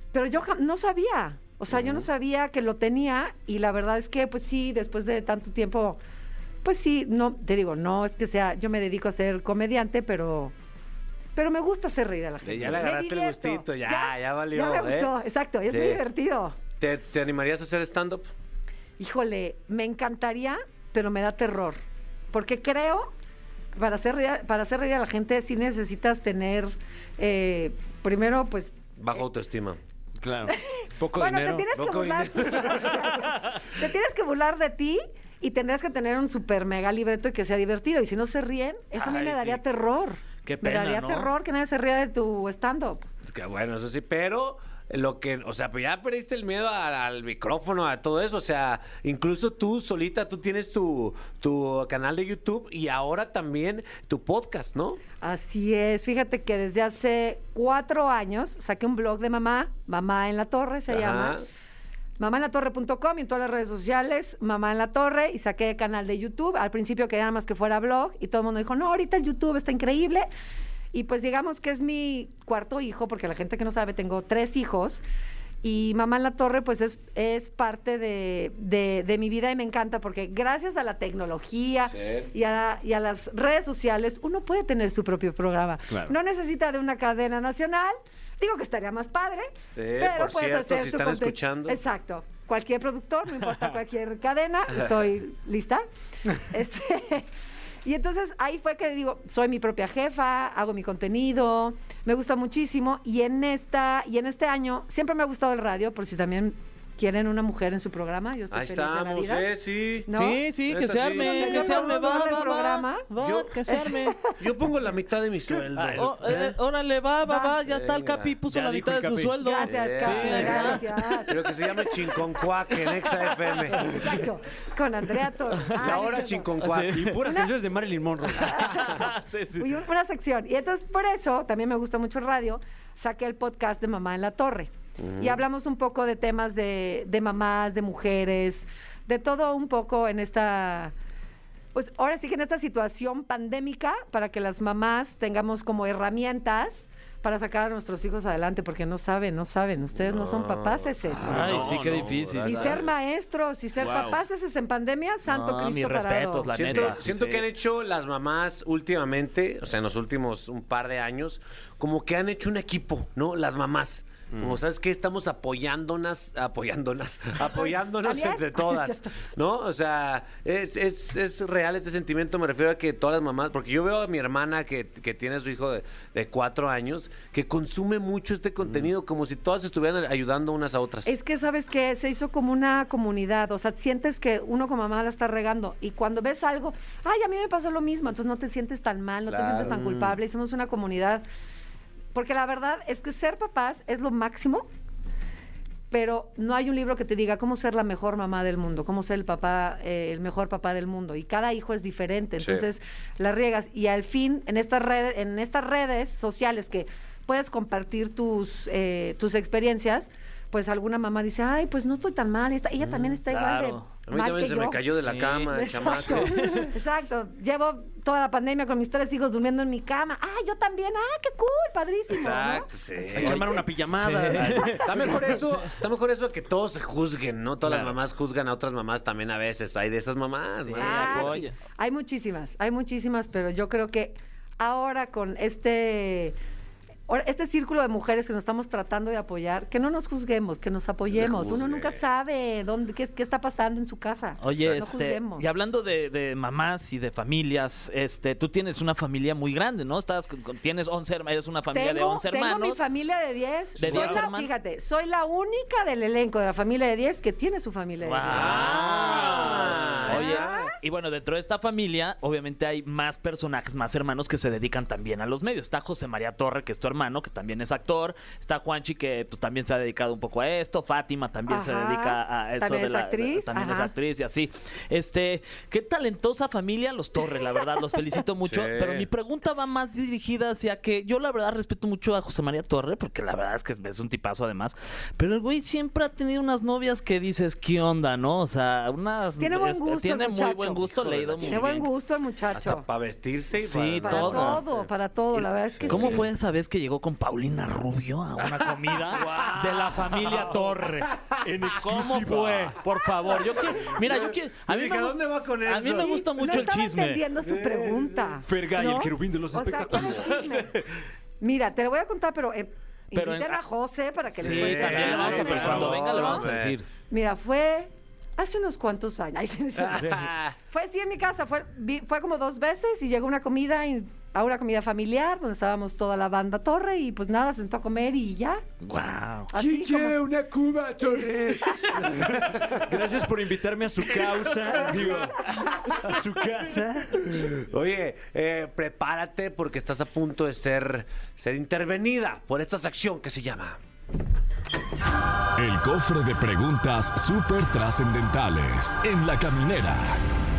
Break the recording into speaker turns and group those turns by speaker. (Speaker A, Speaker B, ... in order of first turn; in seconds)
Speaker A: 0.1-6.0, 6.6-10.5, 11.3-16.6, 19.0-21.8, 22.3-23.1, 23.7-28.8, 30.5-43.1, 55.2-61.4, 62.2-70.3, 70.9-75.0, 75.6-97.3, 97.8-109.5, 110.1-110.5, 111.0-113.1, 113.7-114.4, 117.2-117.6, 119.4-122.2, 123.7-126.5, 127.2-127.5, 128.3-140.9, 141.8-151.4, 152.4-156.9, 167.5-169.2, 181.1-191.2, 192.1-194.7, 195.9-214.9, 215.5-222.7, 223.3-223.6, 230.8-236.4, 237.1-245.5, 251.7-258.9, 260.1-260.8, 271.5-273.9, 289.4-290.9, 291.4-292.9, 294.0-296.2, 306.0-310.7, 311.4-316.4, 317.1-328.6, 329.5-330.2, 335.0-335.2
Speaker B: 1.7-2.1, 12.4-16.0, 16.8-18.3, 29.0-29.8, 31.7-33.1, 43.2-55.0, 60.9-61.5, 81.9-82.3, 89.7-91.8, 108.5-110.1, 110.7-111.9, 113.2-113.5, 114.4-116.6, 117.6-118.4, 119.7-123.9, 125.7-127.2, 135.0-135.4, 150.0-152.9, 156.5-181.1, 189.3-190.2, 202.4-202.7, 214.1-216.5, 222.1-223.6, 224.3-231.4, 241.1-242.0, 258.3-260.7, 278.4-279.1, 290.9-291.6, 292.5-296.3, 298.4-301.4, 303.6-306.3, 307.4-308.2, 314.4-316.8, 319.8-320.6, 329.5-333.1, 337.3-343.8
Speaker C: 30.2-31.7, 115.7-116.6, 118.5-120.8, 126.6-129.1, 151.3-152.2, 153.8-154.2, 156.7-157.3, 223.1-224.9, 253.8-254.2, 299.1-300.6, 301.4-302.8, 308.4-310.8, 315.1-316.0, 332.1-337.4
Speaker D: 39.0-39.6, 40.4-41.3, 110.1-114.2, 116.0-121.2, 126.6-127.1, 128.6-129.7, 151.3-152.8, 155.3-157.4, 213.3-213.9, 215.0-216.7, 223.9-225.3, 230.7-231.6, 244.4-252.8, 253.8-254.5, 258.0-291.9, 293.6-294.6, 295.9-301.1, 301.7-307.2, 313.1-313.6, 314.4-316.9, 328.8-329.5
Speaker E: 345.6-350.2